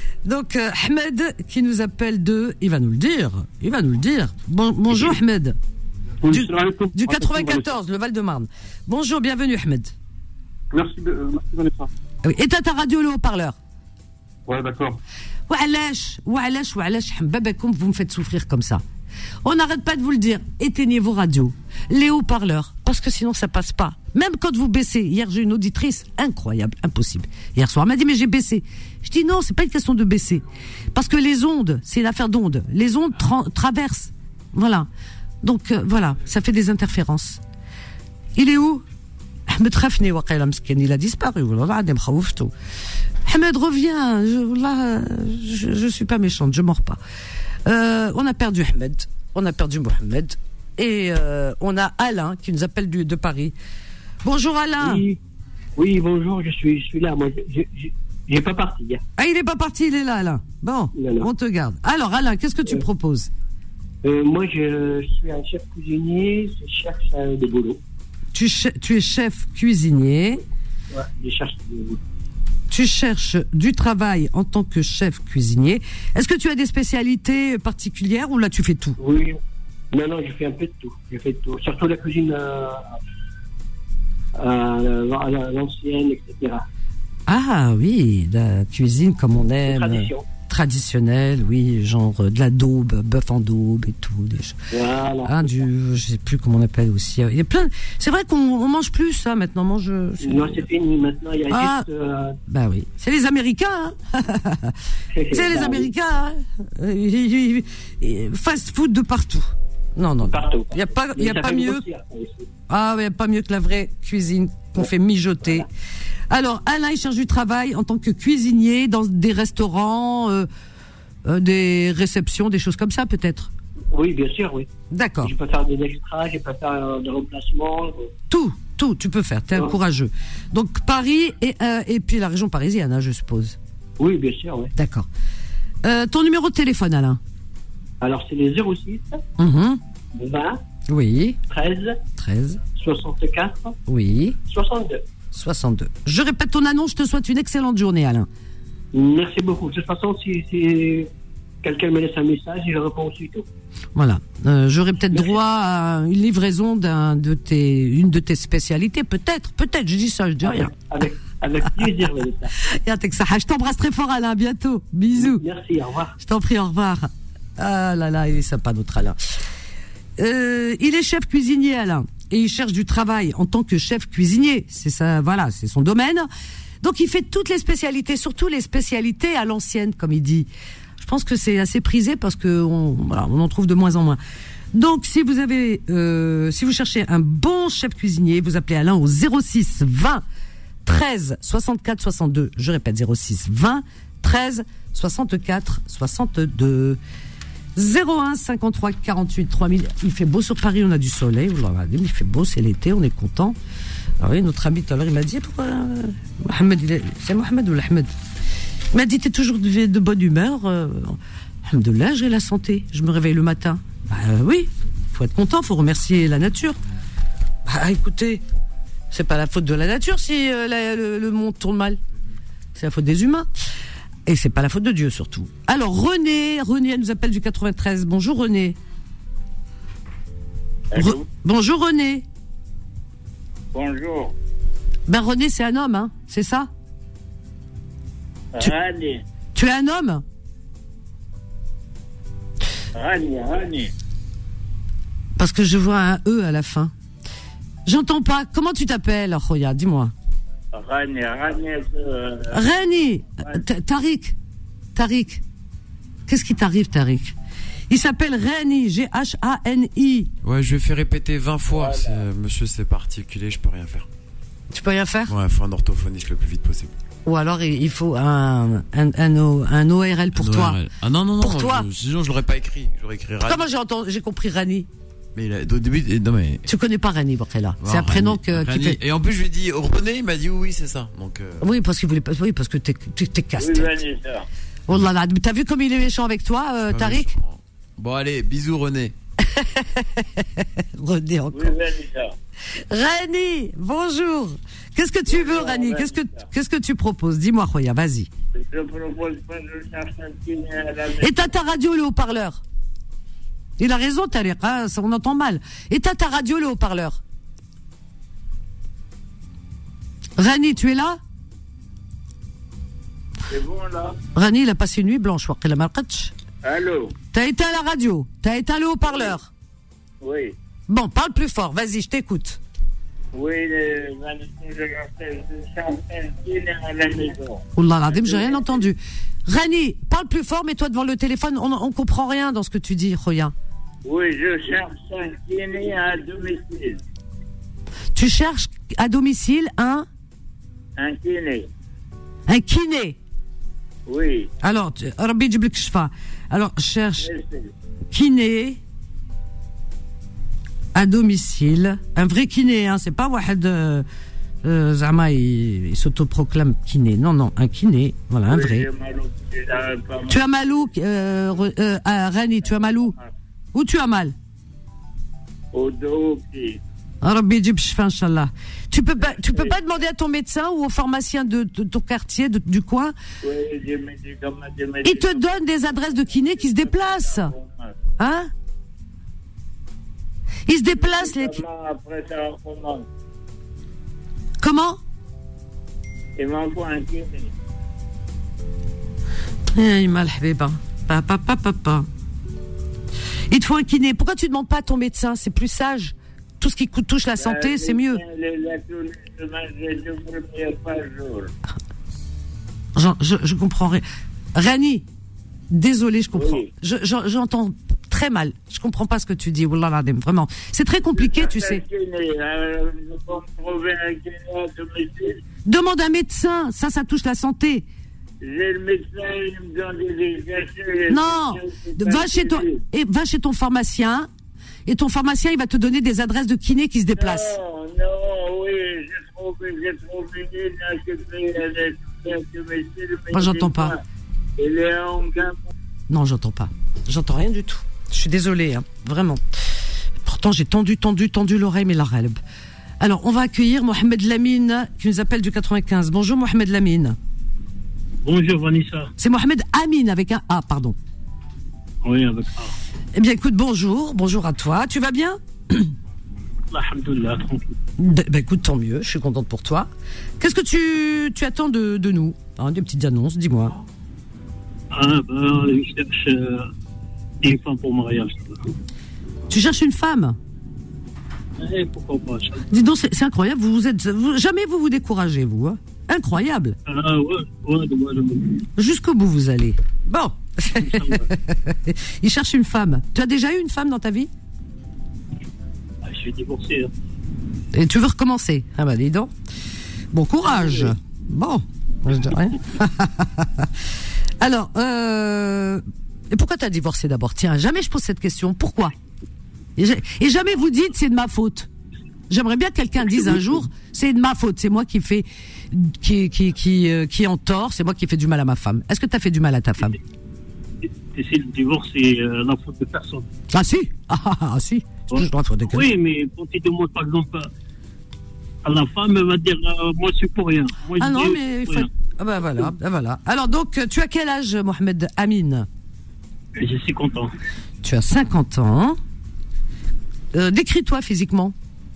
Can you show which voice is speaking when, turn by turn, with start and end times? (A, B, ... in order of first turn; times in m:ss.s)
0:00.2-0:05.6 A
0:06.2-0:09.9 A
0:06.4-0:07.6 B
0:10.7-0:11.9 B
0:12.2-0:13.6 A
0:14.5-0:14.9 B
0:15.5-0:18.8 A
0:19.4-0:34.9 A
0:35.4-0:37.4 A
0:38.4-0:38.8 A
0:39.5-0:42.5 A
0:43.2-0:47.0 A
0:47.7-0:53.6 A
0:54.2-0:55.0 A
0:54.8-0:55.2 C
0:55.8-0:59.0 C
0:59.2-1:03.3 A
1:00.9-1:01.3 C
1:04.0-1:07.8 C
1:08.3-1:10.4 A
1:10.9-1:12.0 C
1:12.7-1:19.0 A
1:19.0-1:19.4 C
1:19.9-1:23.0 C
1:24.4-1:26.6 C
1:27.3-1:34.7 A
1:29.7-1:30.2 C
1:34.7-1:35.5 C
1:35.2-1:40.6 A
1:40.2-1:42.4 C
1:41.5-1:41.9 A
1:42.5-1:44.8 A
1:45.1-1:45.9 C
1:45.3-1:51.8 A
1:50.2-1:52.5 C
1:52.7-1:55.7 A
1:56.3-2:00.5 A
2:01.2-2:03.5 A
2:03.9-2:04.7 C
2:04.9-2:05.3 A
2:05.2-2:08.1 C
2:08.3-2:13.6 A
2:14.0-2:14.7 C
2:14.8-2:15.1 A
2:15.8-2:17.2 A
2:18.0-2:19.2 C
2:19.4-2:19.8 A
2:20.1-2:20.6 C
2:20.9-2:21.4 A
2:21.5-2:22.0 C
2:22.2-2:22.6 A
2:22.8-2:23.8 C
2:23.9-2:24.4 A
2:24.4-2:25.0 C
2:25.3-2:28.3 A
2:28.9-2:31.1 C
2:31.6-2:33.5 C
2:33.9-2:40.7 A
2:40.4-2:42.6 C
2:42.6-2:45.4 A
2:45.1-2:46.1 C
2:46.2-2:49.2 A
2:50.2-2:56.3 A
2:56.8-3:00.5 A
3:01.0-3:04.2 A
3:04.7-3:10.2 A
3:10.8-3:17.0 A
3:17.8-3:23.6 A
3:24.2-3:28.1 A
3:28.9-3:36.8 A
3:37.7-3:38.4 A
3:39.1-3:42.0 A
3:42.8-3:43.5 A
3:44.2-3:48.8 A
3:50.9-3:51.2 D
3:50.9-3:52.2 A
3:53.7-3:54.3 D
3:55.1-3:56.7 A
3:58.5-3:59.2 D
3:59.6-4:00.2 A
4:02.9-4:03.9 D
4:05.4-4:06.9 A
4:07.8-4:10.1 A
4:10.7-4:12.9 D
4:12.5-4:14.4 A
4:14.9-4:15.4 A
4:16.3-4:17.3 A
4:17.9-4:20.3 A
4:20.4-4:24.1 E
4:21.7-4:22.2 D
4:24.7-4:25.3 A
4:25.3-4:26.9 E
4:27.2-4:30.8 A
4:30.3-4:33.6 E
4:31.4-4:31.9 A
4:33.4-4:34.9 A
4:35.3-4:36.7 E
4:36.7-4:39.0 A
4:37.8-4:41.7 E
4:41.6-4:44.0 A
4:43.6-4:44.5 D
4:44.9-4:47.3 A
4:46.9-4:49.1 E
4:49.5-4:51.7 A
4:51.5-4:52.3 D
4:52.9-4:58.3 A
4:55.3-4:56.4 D
4:58.6-5:01.5 D
5:01.2-5:02.6 A
5:03.8-5:07.2 A
5:10.4-5:11.2 A
5:13.5-5:14.2 D
5:14.3-5:16.3 A
5:16.6-5:17.2 D
5:17.3-5:19.5 A
5:19.1-5:19.3 D
5:20.2-5:20.6 D
5:20.9-5:22.6 A
5:23.3-5:28.8 D
5:27.7-5:33.5 A
5:34.0-5:37.0 D
5:38.1-5:40.1 A
5:41.0-5:41.7 D
5:42.5-5:43.2 A
5:44.1-5:44.5 D
5:44.6-5:47.3 A
5:47.2-5:47.7 D
5:48.1-5:48.8 A
5:50.9-5:54.1 A
5:54.6-5:58.9 A
5:58.5-6:00.7 D
6:00.3-6:03.2 A
6:02.6-6:03.3 D
6:03.7-6:04.3 A
6:05.7-6:06.8 D
6:07.2-6:13.1 A
6:09.2-6:09.8 D
6:13.4-6:18.0 D
6:15.0-6:17.5 A
6:18.2-6:18.5 A
6:20.7-6:21.6 A
6:20.9-6:23.1 D
6:24.6-6:25.0 A
6:26.4-6:27.5 D
6:29.7-6:32.1 A
6:33.5-6:38.2 A
6:37.4-6:41.5 D
6:42.9-6:45.1 A
6:45.7-6:51.8 A
6:46.3-6:46.7 D
6:51.2-6:55.4 D
6:55.6-6:57.8 A
6:58.4-7:02.8 D
7:01.1-7:04.3 A
7:04.8-7:07.6 A
7:07.2-7:14.0 D
7:13.3-7:14.0 A
7:14.6-7:15.7 D
7:16.1-7:22.4 A
7:23.0-7:27.2 A
7:28.2-7:29.1 F
7:29.2-7:31.0 A
7:32.0-7:32.7 F
7:33.2-7:35.9 A
7:36.7-7:37.8 F
7:38.0-7:43.8 A
7:44.9-7:46.7 F
7:47.4-7:48.6 F
7:49.5-7:50.4 A
7:51.6-7:52.7 F
7:52.7-7:56.8 A
7:56.8-7:58.7 F
7:58.8-8:04.3 A
8:00.8-8:01.3 F
8:06.0-8:06.9 F
8:07.7-8:09.3 A
8:10.1-8:13.8 A
8:10.6-8:10.9 F
8:14.4-8:18.9 A
8:19.8-8:21.7 A
8:22.3-8:30.0 A
8:31.1-8:33.3 F
8:33.5-8:35.9 A
8:35.1-8:37.5 F
8:38.6-8:41.9 F
8:41.0-8:45.7 A
8:46.6-8:47.3 F
8:47.8-8:49.0 A
8:50.3-8:51.5 A